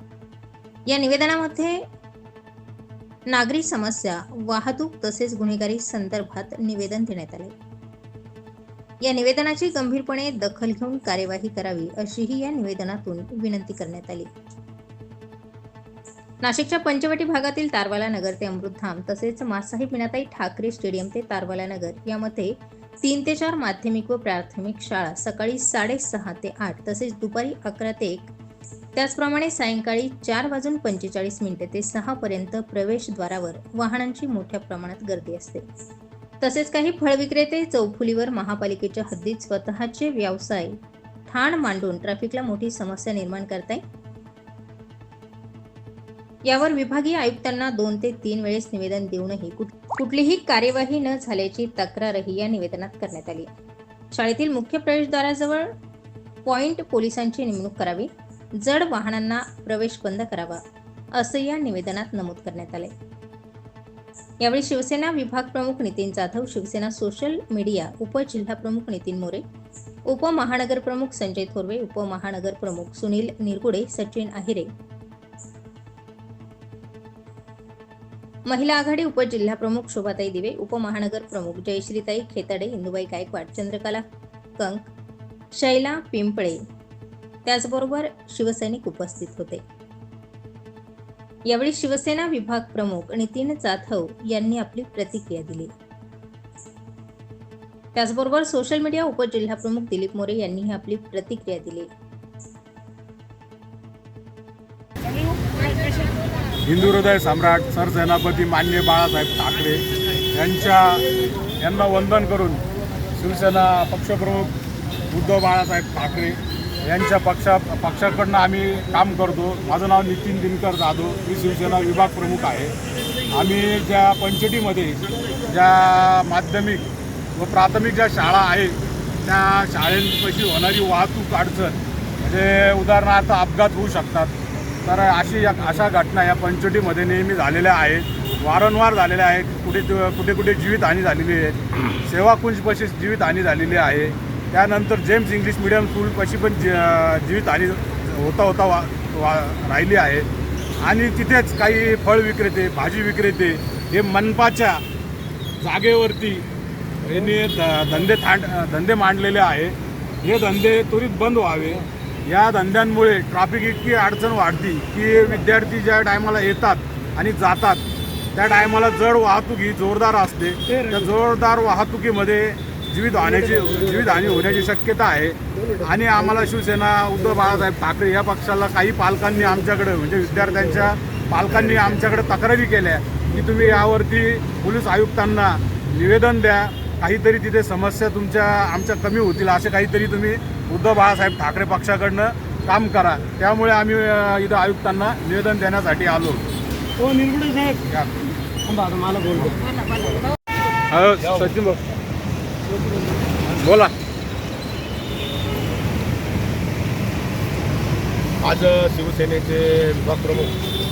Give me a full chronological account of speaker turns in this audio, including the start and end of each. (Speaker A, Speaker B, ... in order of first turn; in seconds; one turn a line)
Speaker A: 0.9-1.8
Speaker A: 3.3-7.5
Speaker A: 9.0-14.3
Speaker A: 16.4-28.3
Speaker A: 28.9-35.6
Speaker A: 36.4-43.8
Speaker A: 46.5-53.5
Speaker A: 54.1-55.7
Speaker A: 56.4-60.6
Speaker A: 61.1-62.9
Speaker A: 64.4-69.4
Speaker A: 70.1-74.7
Speaker A: 78.5-84.0
Speaker A: 84.6-84.9
Speaker A: 85.5-86.6
Speaker A: 87.5-89.6
Speaker A: 91.5-95.7
Speaker A: 97.9-101.9
Speaker B: 106.6-111.0
Speaker B: 111.6-112.6
Speaker B: 113.2-114.5
Speaker B: 115.1-122.7
Speaker B: 123.3-134.3
Speaker B: 134.8-150.3
Speaker B: 150.8-154.8
Speaker B: 155.6-156.4
Speaker B: 157.0-167.8
Speaker B: 168.3-196.4
Speaker C: 197.0-197.8
Speaker B: 197.8-198.3
Speaker C: 198.6-199.4
Speaker B: 200.9-201.9
Speaker D: 201.2-201.5
Speaker C: 202.8-203.3
Speaker B: 203.6-203.9
Speaker D: 208.4-210.6